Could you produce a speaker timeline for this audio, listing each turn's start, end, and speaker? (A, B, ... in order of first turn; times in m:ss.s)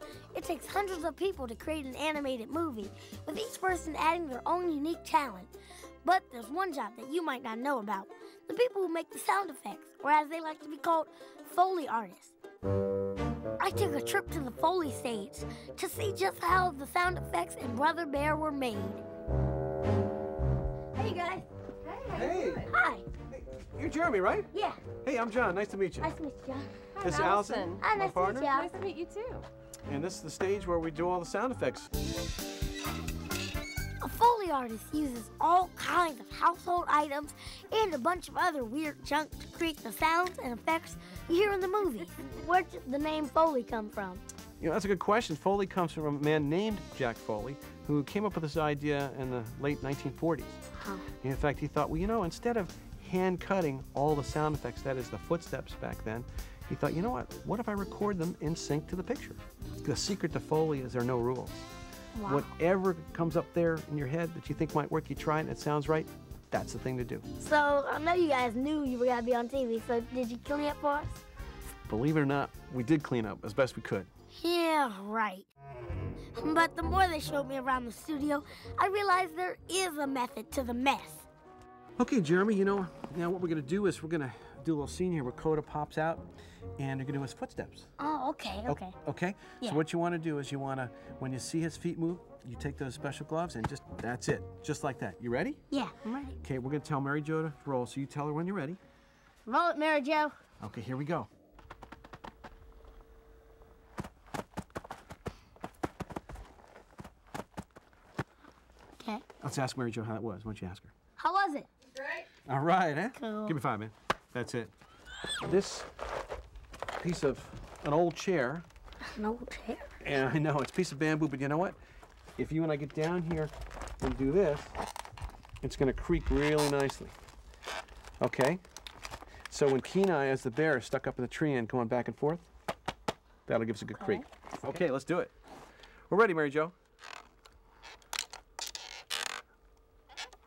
0:00.3-0:05.5 A
0:06.0-0:12.3 A
0:13.6-0:19.0 A
0:20.9-0:21.4 A
0:21.8-0:22.7 B
0:22.1-0:22.7 C
0:22.7-0:23.0 A
0:23.3-0:24.5 C
0:24.5-0:24.8 A
0:25.0-0:26.1 C
0:26.0-0:26.8 A
0:27.0-0:29.4 B
0:27.0-0:28.6 C
0:27.8-0:28.7 A
0:29.8-0:31.9 C
0:34.0-0:44.2 A
0:44.6-0:50.6 C
0:50.7-0:51.1 A
0:51.2-1:01.7 C
1:02.1-1:02.5 A
1:02.2-1:07.2 C
1:07.4-1:11.2 A
1:11.9-1:14.1 C
1:14.3-1:15.5 A
1:16.3-1:21.3 A
1:22.0-1:26.2 C
1:26.8-1:27.9 C
1:28.0-1:29.0 A
1:28.7-1:35.6 C
1:35.7-1:36.4 A
1:36.4-1:38.8 C
1:39.4-1:40.3 A
1:40.6-1:41.3 C
1:49.0-1:49.2 A
1:49.4-1:50.9 C
1:51.2-1:51.7 A
1:52.4-1:54.7 C
1:53.2-1:53.6 A
1:55.4-1:55.9 C
1:57.0-1:58.6 C
1:59.0-2:00.0 A
2:00.0-2:01.8 C
2:02.4-2:04.7 C
2:05.6-2:07.1 C
2:08.2-2:08.6 C
2:09.5-2:12.5 C
2:13.5-2:15.3 C
2:13.9-2:14.3 A
2:16.1-2:16.7 C